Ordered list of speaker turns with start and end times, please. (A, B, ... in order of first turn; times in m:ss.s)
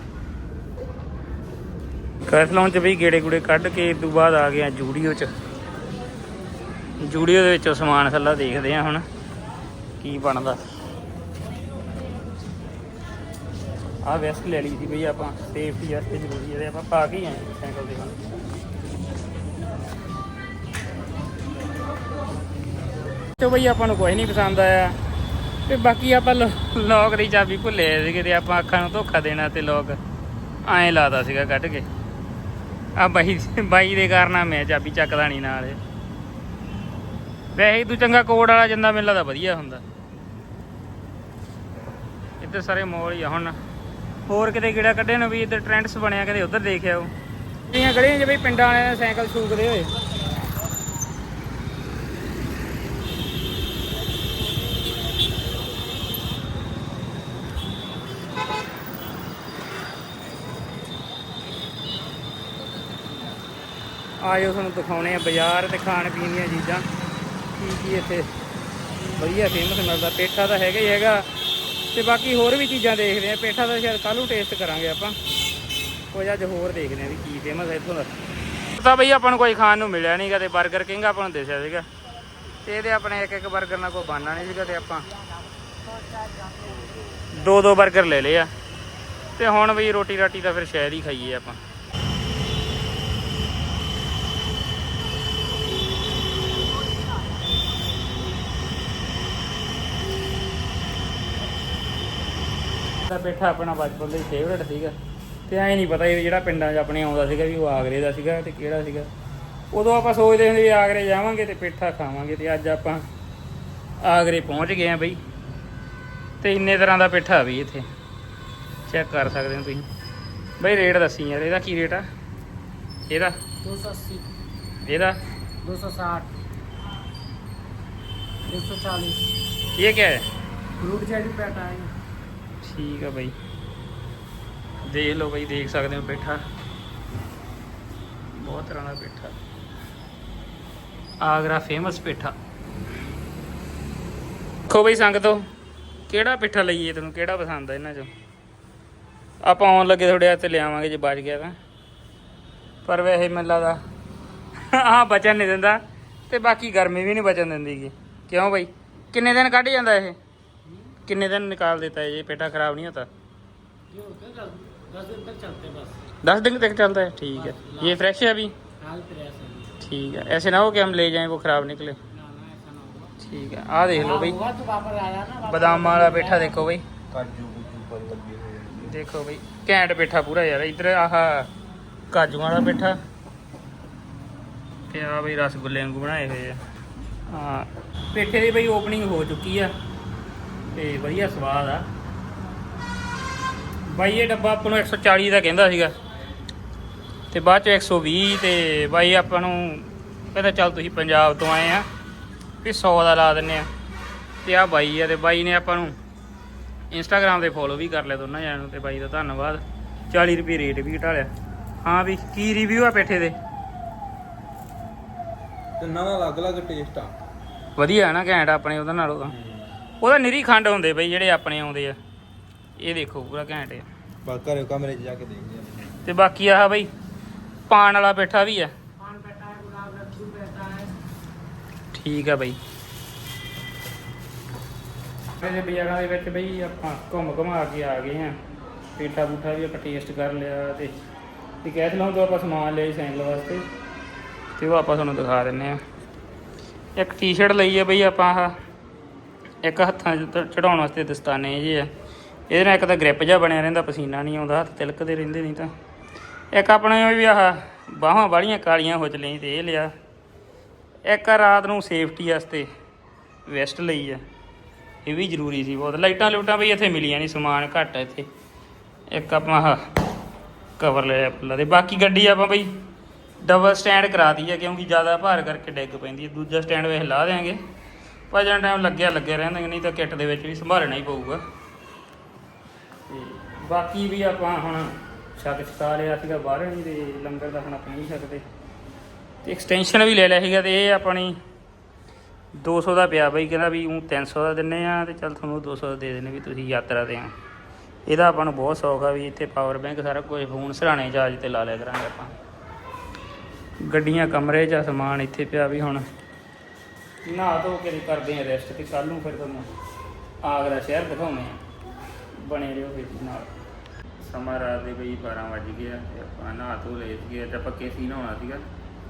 0:02.2-0:05.3 A
0:07.0-0:09.0 A
0:10.0-0:10.7 A
0:14.0-0:18.2 A
0:23.4-0:25.0 A
0:25.7-0:30.0 A
0:30.6-0:31.9 A
0:33.0-0:35.8 A
0:37.5-0:39.8 A
0:42.4-0:43.6 A
0:44.3-0:47.1 A
0:47.7-0:49.9 A
1:04.2-1:06.9 A
1:07.6-1:08.3 A
1:09.1-1:11.3 A
1:11.9-1:15.2 A
1:16.1-1:18.1 A
1:18.7-1:21.9 A
1:22.6-1:25.1 A
1:25.8-1:26.8 B
1:27.3-1:28.5 A
1:29.4-1:31.6 A
1:43.0-1:45.0 A
1:45.5-1:49.1 A
1:49.7-1:53.0 A
1:54.0-1:55.2 A
1:56.4-1:57.9 A
1:58.9-1:59.9 A
2:00.6-2:02.0 A
2:03.1-2:03.4 A
2:03.6-2:04.2 B
2:04.8-2:05.2 A
2:05.6-2:06.3 B
2:08.5-2:09.3 B
2:09.7-2:10.3 A
2:10.8-2:11.9 B
2:12.6-2:13.4 A
2:14.8-2:16.4 A
2:18.3-2:19.4 A
2:21.2-2:22.4 A
2:24.7-2:25.4 A
2:26.1-2:28.1 A
2:29.4-2:31.6 A
2:32.8-2:33.8 A
2:34.6-2:40.2 A
2:41.0-2:43.1 A
2:43.9-2:46.0 B
2:46.2-2:48.6 A
2:47.4-2:48.0 B
2:48.8-2:49.7 B
2:49.8-2:52.0 A
2:52.1-2:53.1 B
2:53.2-2:54.4 A
2:54.0-2:56.5 B
2:55.4-2:56.8 A
2:57.1-2:58.9 C
2:58.8-3:01.5 A
3:02.1-3:03.0 A
3:04.9-3:06.6 A
3:07.3-3:09.7 A
3:10.7-3:11.9 A
3:13.9-3:15.9 A
3:17.3-3:21.8 A
3:22.6-3:23.7 A
3:24.4-3:25.9 A
3:26.9-3:31.3 A
3:31.8-3:33.4 A
3:35.8-3:37.2 C
3:37.8-3:39.3 A
3:39.3-3:39.6 C
3:40.0-3:42.0 A
3:42.8-3:43.8 A
3:44.2-3:45.9 C
3:46.0-3:46.9 A
3:47.7-3:48.7 A
3:49.0-3:50.9 B
3:51.9-3:52.6 A
3:55.4-3:58.4 A
3:59.0-4:01.0 A
4:01.6-4:03.6 A
4:04.6-4:05.8 A
4:07.0-4:08.5 A
4:09.6-4:11.9 A
4:12.5-4:15.7 A
4:16.5-4:19.9 A
4:21.1-4:22.7 A
4:23.5-4:24.2 A
4:25.0-4:28.3 A
4:29.1-4:29.8 A
4:30.8-4:32.7 A
4:33.4-4:37.6 A
4:38.3-4:41.4 A
4:43.1-4:48.4 A
4:49.4-4:51.4 A
4:52.5-4:57.3 A
4:58.1-5:02.3 A
5:03.8-5:06.0 A
5:07.2-5:09.7 A
5:10.4-5:11.6 A
5:12.4-5:13.5 A
5:14.2-5:18.6 A